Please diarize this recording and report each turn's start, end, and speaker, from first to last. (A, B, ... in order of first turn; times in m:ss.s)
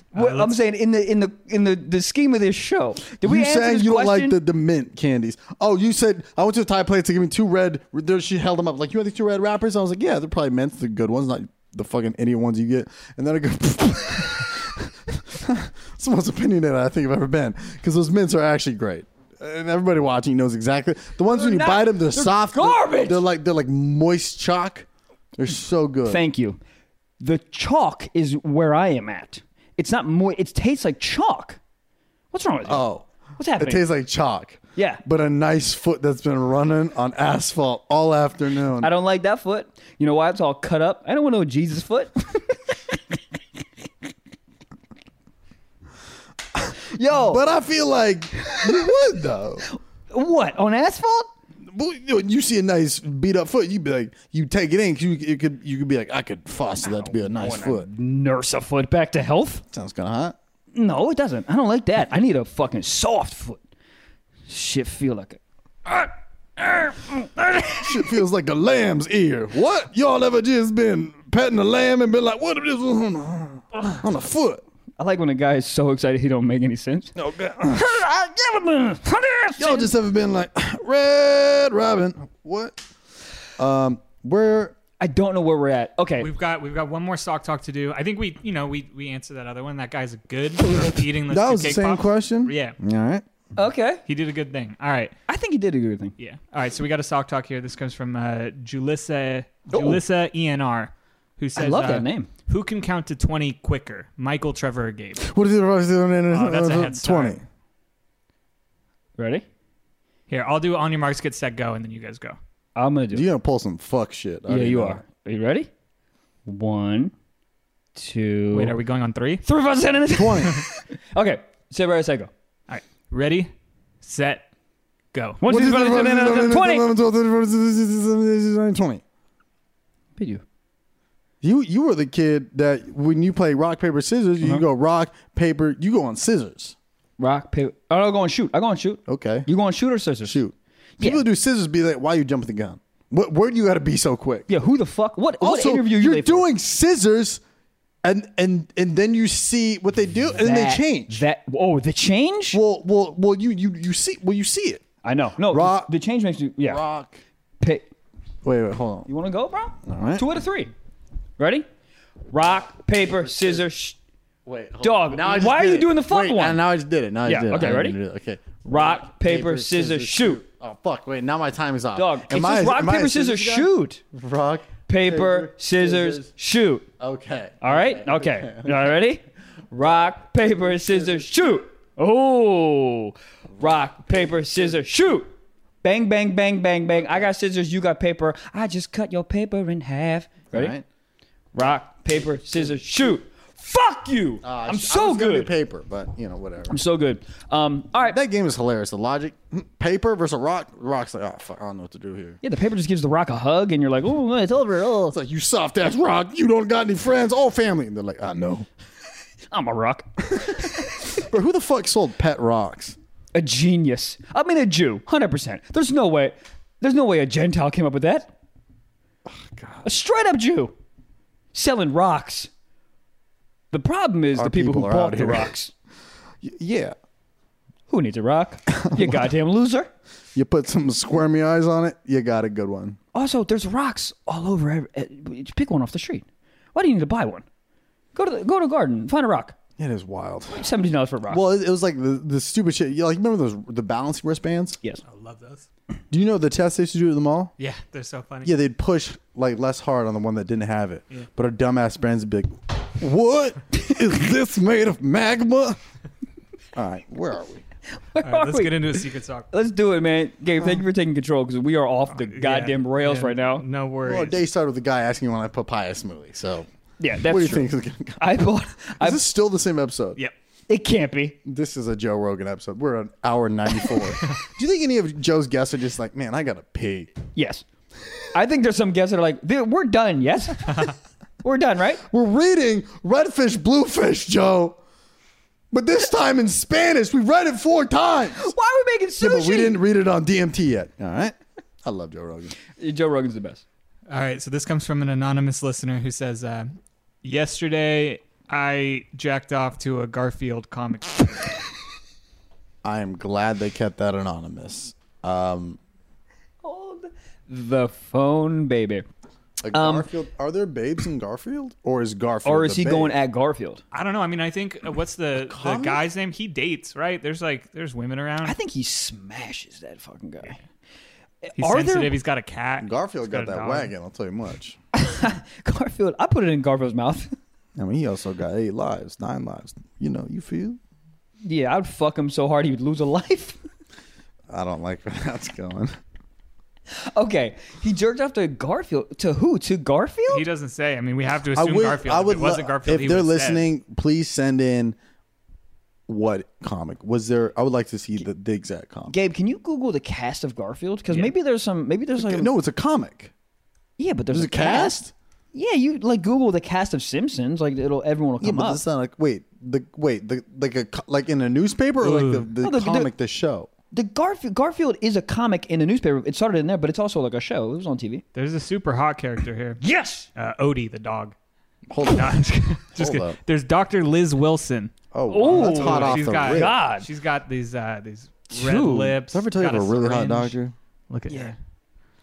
0:00.1-0:04.4 A
0:00.1-0:00.5 B
0:03.2-0:26.2 C
0:21.3-0:23.2 A
0:26.0-0:26.6 A
0:27.2-0:31.6 A
0:32.3-0:33.8 A
0:32.7-0:38.9 C
0:34.8-0:35.0 A
0:38.8-0:43.0 A
0:46.8-0:47.4 A
0:47.2-0:49.6 C
0:48.4-0:48.9 A
0:49.6-0:51.3 A
0:51.6-0:57.9 C
0:56.8-0:59.6 A
0:59.7-1:00.4 C
1:00.7-1:03.6 A
1:04.5-1:08.1 A
1:07.7-1:14.6 C
1:15.0-1:19.9 A
1:17.2-1:18.0 C
1:19.6-1:22.8 C
1:23.6-1:24.8 C
1:25.0-1:26.3 A
1:26.2-1:32.8 B
1:30.6-1:33.2 C
1:33.6-1:34.0 A
1:34.1-1:35.1 B
1:35.3-1:36.1 A
1:36.2-1:45.2 B
1:39.7-1:40.0 C
1:41.6-1:42.3 A
1:45.2-1:47.4 C
1:46.3-1:47.4 B
1:49.2-1:49.4 A
1:50.3-1:52.4 B
1:52.8-1:53.2 A
1:53.1-1:55.0 C
1:54.5-1:55.7 A
1:56.4-1:57.1 A
1:57.9-1:58.7 A
1:58.5-1:59.4 B
1:59.4-2:02.3 A
2:00.1-2:00.6 C
2:02.7-2:03.5 B
2:04.0-2:04.4 B
2:05.1-2:05.4 B
2:05.4-2:06.9 A
2:05.4-2:09.0 C
2:10.2-2:10.4 A
2:11.4-2:16.7 C
2:17.2-2:20.4 A
2:19.1-2:19.5 C
2:20.2-2:24.5 C
2:21.0-2:21.2 A
2:24.5-2:26.5 A
2:25.4-2:27.4 C
2:28.0-2:31.2 C
2:30.4-2:32.6 A
2:32.5-2:34.8 C
2:35.0-2:36.8 A
2:35.5-2:35.9 C
2:36.6-2:37.2 C
2:37.6-2:37.9 A
2:38.4-2:39.1 C
2:39.1-2:40.7 A
2:39.8-2:40.3 C
2:41.4-2:41.6 A
2:42.3-2:44.0 A
2:44.4-2:56.3 C
2:44.8-2:46.6 A
2:47.2-2:48.0 A
2:48.6-2:50.4 A
2:51.9-2:54.0 A
2:54.9-2:56.9 A
2:57.0-2:58.9 C
2:57.6-3:05.3 A
3:00.6-3:01.3 C
3:05.8-3:10.8 A
3:10.5-3:10.8 C
3:11.5-3:15.5 A
3:14.4-3:16.8 C
3:16.7-3:18.2 A
3:18.1-3:22.4 C
3:22.4-3:25.2 A
3:25.1-3:28.7 C
3:29.5-3:31.2 A
3:30.4-3:33.0 C
3:33.3-3:38.3 A
3:39.2-3:39.8 C
3:39.8-3:40.7 A
3:41.5-3:42.5 A
3:43.7-3:45.7 A
3:44.3-3:45.5 C
3:46.4-3:47.0 C
3:47.9-3:49.9 A
3:48.7-3:49.3 C
3:50.3-3:53.0 C
3:53.1-3:57.4 A
3:58.1-3:59.6 A
3:59.8-4:00.6 C
4:00.5-4:01.4 A
4:01.3-4:04.8 C
4:05.0-4:05.6 B
4:06.1-4:07.5 C
4:07.6-4:08.5 B
4:08.4-4:15.8 C
4:16.7-4:17.6 C
4:18.1-4:19.0 A
4:18.2-4:19.5 B
4:19.5-4:23.6 A
4:22.1-4:24.4 B
4:24.0-4:28.2 C
4:27.0-4:29.2 A
4:29.0-4:30.2 C
4:30.7-4:31.4 A
4:31.4-4:37.1 C
4:37.3-4:37.6 A
4:38.3-4:42.0 A
4:42.1-4:44.8 C
4:45.7-4:48.5 C
4:48.3-4:49.8 A
4:49.2-4:52.5 C
4:52.8-4:53.6 A
4:54.1-4:56.7 B
4:57.2-5:01.6 B
5:02.8-5:05.8 C
5:06.6-5:09.0 A
5:09.6-5:13.2 C
5:09.7-5:10.1 A
5:12.4-5:13.8 A
5:13.9-5:18.6 B
5:15.5-5:16.0 C
5:18.4-5:20.6 A
5:21.4-5:22.1 A
5:21.6-5:23.9 B
5:22.8-5:24.8 C
5:24.9-5:27.3 A
5:27.8-5:30.8 C
5:31.4-5:33.6 A
5:34.5-5:35.9 C
5:37.0-5:40.4 A
5:40.3-5:43.6 B
5:41.5-5:45.0 C
5:46.1-5:49.1 C
5:49.1-5:52.5 A
5:52.2-5:53.3 C
5:54.0-5:55.0 A
5:54.3-5:55.1 C
5:55.5-5:58.8 A
5:58.4-6:03.7 C
6:02.0-6:02.5 B
6:02.6-6:03.1 A
6:03.9-6:08.2 A
6:08.3-6:09.8 B
6:09.8-6:10.3 A
6:10.4-6:11.3 B
6:11.9-6:13.4 C
6:12.0-6:20.5 B
6:15.1-6:16.7 C
6:15.3-6:17.0 A
6:18.5-6:19.2 A
6:19.3-6:20.7 C
6:21.1-6:21.6 B
6:21.3-6:21.5 A